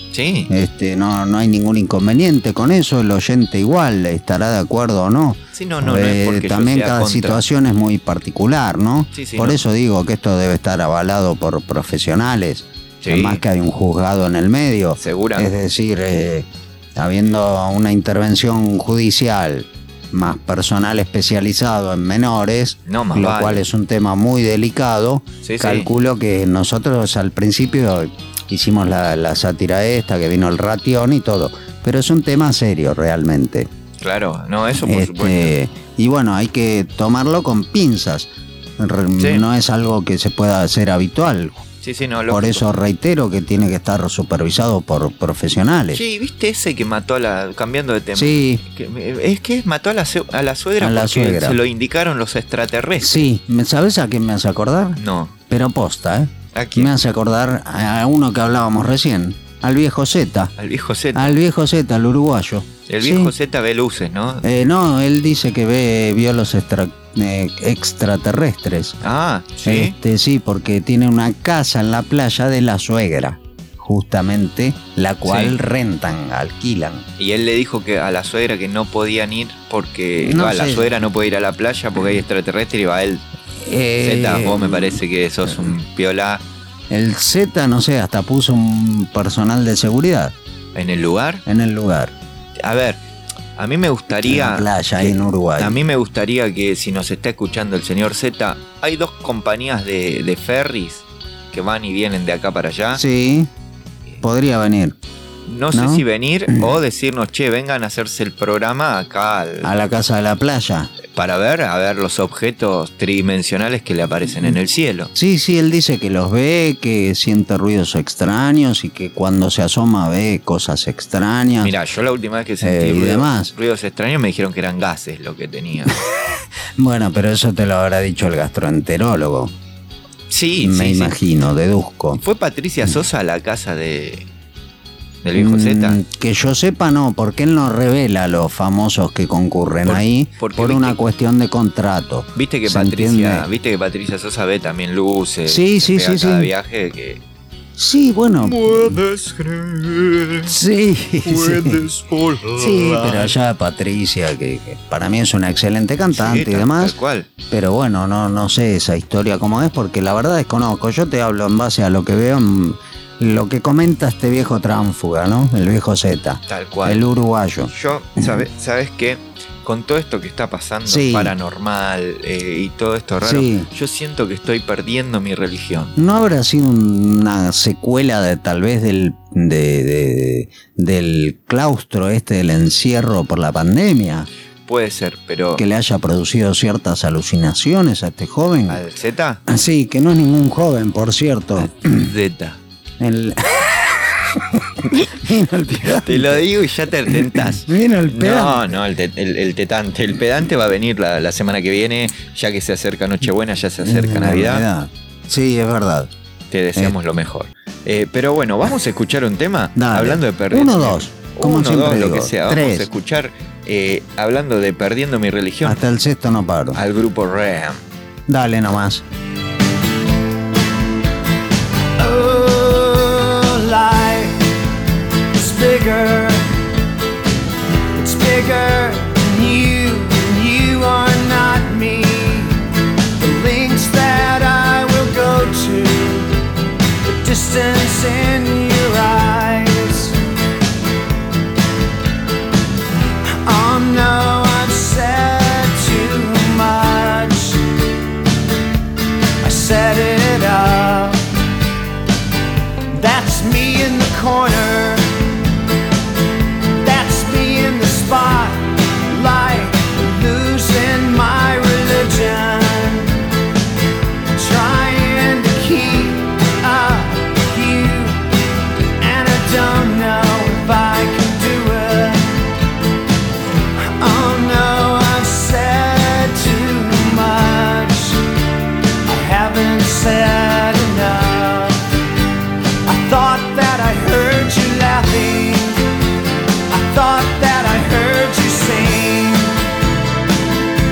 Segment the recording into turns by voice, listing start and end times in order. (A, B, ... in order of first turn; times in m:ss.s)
0:00.1-0:00.5 A
0:00.5-0:33.7 B
0:05.6-0:07.4 A
0:09.1-0:09.6 A
0:13.0-0:13.4 A
0:15.0-0:15.5 A
0:22.9-0:23.6 A
0:25.4-0:25.9 A
0:34.0-0:35.5 A
0:34.8-0:41.6 B
0:39.2-0:39.5 A
0:41.8-0:42.6 A
0:42.3-0:46.0 B
0:45.9-0:53.2 A
0:48.2-0:48.6 B
0:50.8-0:51.6 B
0:53.0-1:00.5 B
0:55.0-0:55.3 A
0:56.5-0:56.9 A
1:00.6-1:01.4 A
1:01.2-1:03.3 B
1:02.9-1:04.4 A
1:04.4-1:09.0 B
1:09.0-1:10.0 A
1:09.6-1:17.1 B
1:15.2-1:15.6 A
1:17.2-1:23.2 A
1:20.2-1:20.9 B
1:23.6-1:25.0 B
1:24.0-1:26.4 A
1:26.9-1:30.4 B
1:30.8-1:31.4 A
1:31.5-1:32.1 B
1:32.6-1:33.0 A
1:33.6-1:43.0 A
1:34.2-1:35.8 B
1:43.0-1:43.5 B
1:44.2-1:45.0 B
1:45.5-1:49.7 A
1:45.7-1:46.6 B
1:49.6-1:50.9 B
1:51.2-1:55.1 A
1:55.2-2:01.7 B
2:01.6-2:06.0 A
2:02.6-2:03.5 B
2:06.8-2:09.5 B
2:10.3-2:11.2 A
2:10.6-2:12.2 B
2:12.2-2:14.3 A
2:15.2-2:16.0 A
2:15.4-2:23.5 B
2:19.8-2:21.0 A
2:22.4-2:27.2 A
2:25.5-2:26.5 B
2:27.8-2:29.0 B
2:29.1-2:30.4 A
2:30.4-2:31.9 B
2:32.1-2:32.4 A
2:32.5-2:37.0 B
2:36.1-2:37.3 A
2:37.5-2:47.7 B
2:46.5-2:47.1 A
2:47.7-2:56.0 A
2:50.9-2:51.3 B
2:53.2-2:53.7 B
2:56.0-3:04.3 B
3:04.7-3:05.6 A
3:05.6-3:08.8 B
3:08.7-3:09.4 A
3:09.5-3:12.1 B
3:11.9-3:12.6 A
3:13.0-3:16.4 B
3:16.0-3:24.6 A
3:17.1-3:18.7 B
3:23.8-3:26.1 B
3:26.5-3:35.8 A
3:29.8-3:32.9 B
3:35.6-3:36.8 B
3:36.8-3:37.8 A
3:38.3-3:39.0 B
3:42.0-3:44.4 C
3:45.3-3:46.5 C
3:47.9-3:52.6 C
3:53.2-3:56.3 C
3:57.0-4:00.2 C
4:03.4-4:07.7 C
4:09.4-4:11.2 C
4:12.9-4:15.1 C
4:16.8-4:23.2 C
4:24.4-4:28.2 C
4:29.0-4:32.2 C
4:33.8-4:38.2 C
4:39.1-4:41.8 C
4:42.8-4:45.8 C
4:46.7-4:49.6 C